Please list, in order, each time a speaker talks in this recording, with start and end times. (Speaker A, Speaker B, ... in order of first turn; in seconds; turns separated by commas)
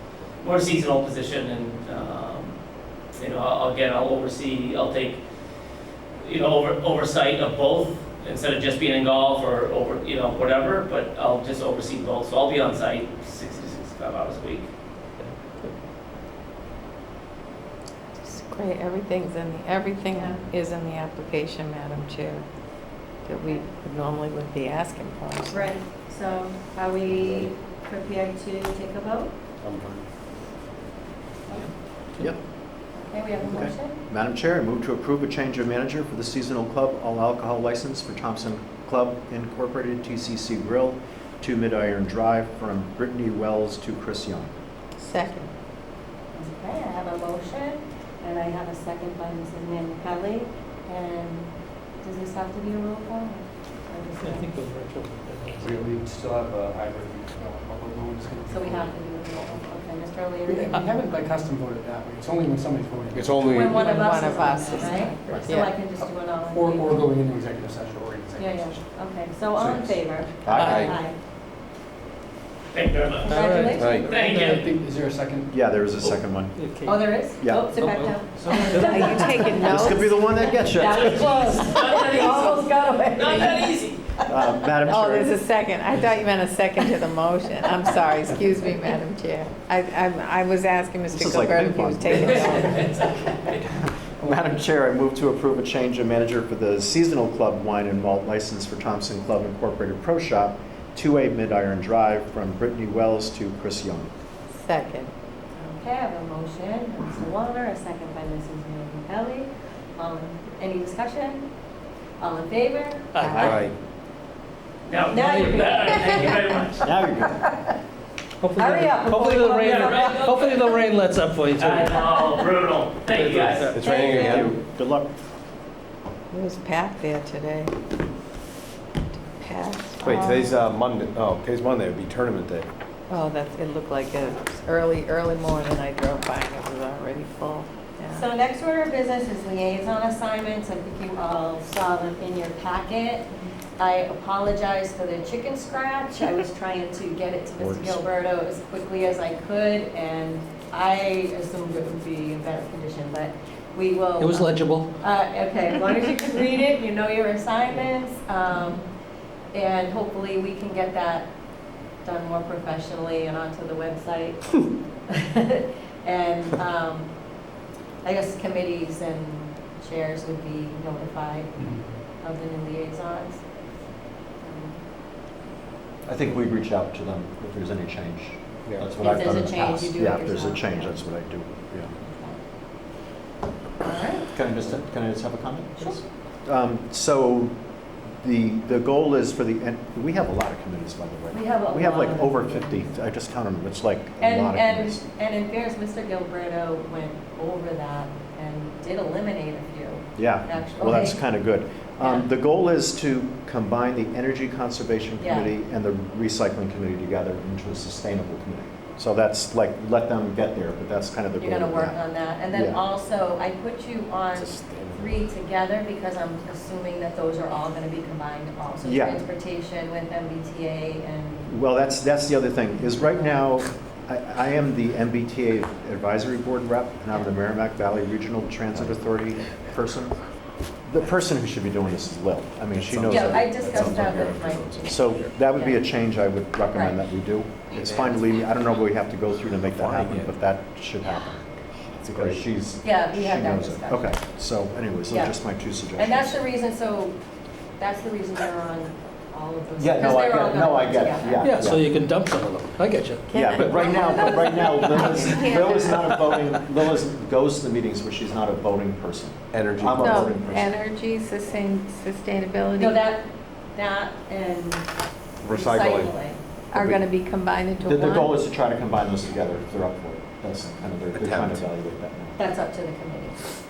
Speaker A: 0.4-5.2, Speaker A: 6.2-14.7, Speaker B: 15.2-15.7, Speaker C: 18.3-22.4, Speaker D: 20.1-20.4, Speaker C: 23.2-25.7, Speaker D: 25.5-29.3, Speaker E: 27.1-27.5, Speaker E: 29.6-30.0, Speaker F: 31.5-32.4, Speaker D: 32.9-34.0, Speaker F: 33.4-44.5, Speaker C: 45.0-45.5, Speaker D: 46.3-54.5, Speaker B: 54.2-55.8, Speaker G: 55.6-59.6, Speaker D: 58.5-60.8, Speaker G: 60.5-63.6, Speaker E: 63.1-63.8, Speaker D: 63.4-67.0, Speaker C: 63.6-65.8, Speaker G: 66.0-68.8, Speaker D: 68.4-71.2, Speaker E: 69.6-70.0, Speaker F: 70.4-70.8, Speaker E: 70.5-71.0, Speaker A: 72.7-74.7, Speaker D: 73.2-74.1, Speaker B: 73.3-74.6, Speaker E: 73.7-74.2, Speaker G: 74.2-75.5, Speaker F: 75.5-76.5, Speaker B: 76.5-79.5, Speaker D: 76.8-79.7, Speaker F: 77.4-77.7, Speaker C: 78.8-80.3, Speaker F: 79.6-81.6, Speaker D: 80.3-83.8, Speaker A: 80.8-84.0, Speaker F: 84.3-85.3, Speaker C: 84.9-92.8, Speaker F: 91.1-93.0, Speaker A: 92.1-93.6, Speaker F: 93.6-104.1, Speaker C: 104.6-105.1, Speaker D: 105.5-111.5, Speaker D: 112.2-113.1, Speaker B: 113.1-113.6, Speaker C: 113.2-113.6, Speaker F: 113.3-113.7, Speaker E: 113.4-113.7, Speaker A: 114.9-116.8, Speaker D: 115.1-116.6, Speaker B: 115.2-115.6, Speaker F: 116.8-117.5, Speaker B: 118.4-122.0, Speaker D: 118.5-120.8, Speaker A: 119.6-120.6, Speaker A: 121.5-123.7, Speaker D: 121.9-122.5, Speaker E: 123.1-124.6, Speaker B: 123.4-123.8, Speaker D: 123.8-124.5, Speaker F: 124.1-125.1, Speaker C: 126.3-127.7, Speaker C: 129.3-130.5, Speaker E: 130.0-132.7, Speaker C: 133.1-138.2, Speaker D: 138.1-158.9, Speaker E: 147.6-148.0, Speaker B: 154.2-154.9, Speaker D: 159.5-161.3, Speaker D: 162.0-167.1, Speaker D: 168.0-173.4, Speaker G: 171.6-171.9, Speaker D: 174.4-174.8, Speaker F: 176.1-181.9, Speaker D: 179.0-181.0, Speaker D: 182.0-182.4, Speaker D: 183.8-184.3, Speaker F: 184.3-187.6, Speaker D: 185.8-186.0, Speaker F: 188.2-195.0, Speaker D: 191.3-193.0, Speaker D: 194.2-201.2, Speaker F: 200.2-212.8, Speaker D: 202.0-202.3, Speaker D: 205.2-205.5, Speaker D: 211.4-221.6, Speaker E: 214.3-215.2, Speaker F: 218.8-219.2, Speaker F: 221.5-230.2, Speaker D: 222.8-223.4, Speaker F: 230.8-234.0, Speaker E: 232.8-235.3, Speaker D: 233.1-234.8, Speaker F: 234.8-241.4, Speaker D: 235.5-235.8, Speaker D: 236.7-237.0, Speaker E: 237.7-238.4, Speaker E: 239.7-240.3, Speaker E: 241.9-242.4, Speaker F: 242.1-246.3, Speaker D: 242.8-244.2, Speaker D: 245.1-245.3, Speaker D: 245.9-247.2, Speaker D: 247.8-251.4, Speaker F: 249.8-251.9, Speaker B: 251.4-253.7, Speaker C: 253.3-256.3, Speaker F: 253.3-260.7, Speaker E: 259.5-260.6, Speaker C: 259.9-263.0, Speaker D: 262.8-264.9, Speaker E: 265.4-266.1, Speaker D: 265.5-266.4, Speaker C: 266.7-268.4, Speaker F: 267.8-272.4, Speaker E: 271.1-271.6, Speaker D: 272.4-273.4